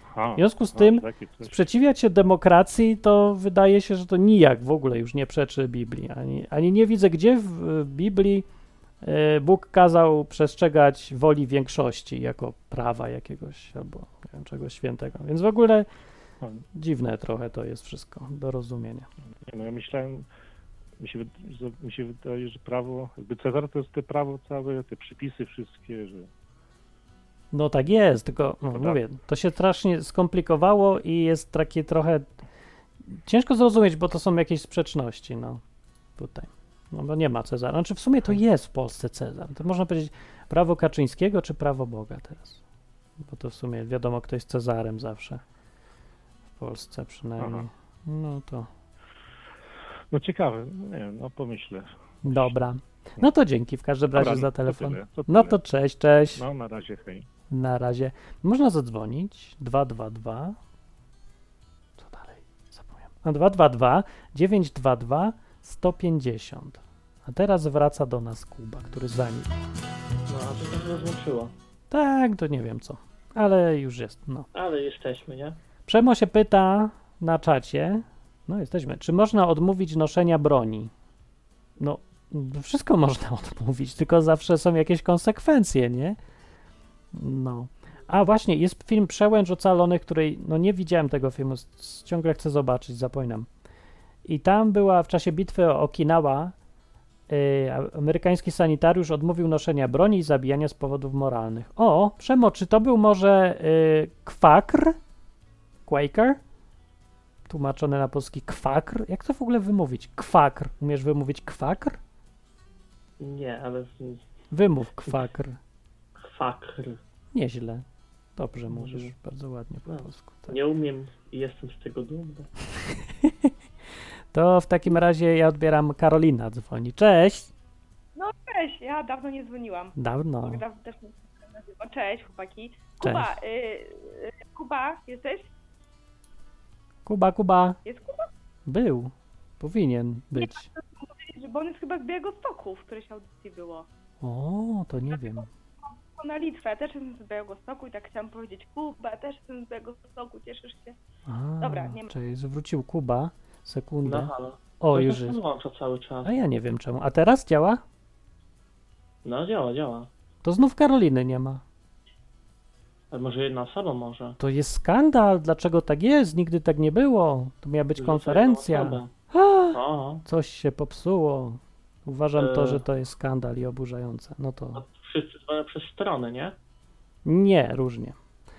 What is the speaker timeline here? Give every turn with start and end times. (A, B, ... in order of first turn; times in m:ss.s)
0:00.1-0:01.6 A
0:00.4-0:08.4 B
0:09.0-0:15.9 B
0:16.7-0:19.1 B
0:19.4-0:20.3 A
0:21.0-0:26.3 A
0:27.5-0:32.3 B
0:28.7-0:29.0 A
0:33.3-0:35.6 B
0:36.2-0:42.6 B
0:43.2-0:45.4 B
0:46.6-0:48.7 B
0:47.4-0:47.7 A
0:50.1-0:52.6 A
0:52.2-0:56.4 B
0:54.1-0:55.6 A
0:56.4-0:57.3 A
0:57.5-1:00.6 B
1:02.0-1:09.5 B
1:10.3-1:11.5 C
1:11.9-1:14.5 B
1:14.5-1:15.6 C
1:15.9-1:20.9 B
1:21.8-1:26.2 B
1:27.1-1:33.5 B
1:34.3-1:36.5 B
1:37.3-1:45.0 B
1:45.9-1:46.4 B
1:47.5-1:52.0 B
1:53.2-1:54.2 C
1:54.5-1:55.6 B
1:56.2-1:57.0 C
1:57.3-1:57.8 B
1:58.4-2:00.6 B
1:58.7-1:59.1 C
1:59.9-2:02.5 C
2:03.2-2:03.5 B
2:04.3-2:07.5 B
2:08.2-2:15.5 D
2:10.0-2:10.6 B
2:13.0-2:13.4 B
2:17.1-2:17.8 B
2:17.8-2:18.3 D
2:18.7-2:20.7 B
2:20.4-2:23.9 D
2:24.2-2:25.5 B
2:25.1-2:31.0 D
2:31.3-2:35.4 B
2:31.6-2:32.1 D
2:34.0-2:36.3 C
2:36.2-2:37.8 B
2:39.2-2:40.1 C
2:40.4-2:41.6 B
2:43.1-2:44.4 C
2:44.4-2:54.8 B
2:48.0-2:49.1 C
2:49.7-2:50.2 C
2:52.4-2:52.8 C
2:54.8-2:56.6 C
2:57.2-2:58.2 B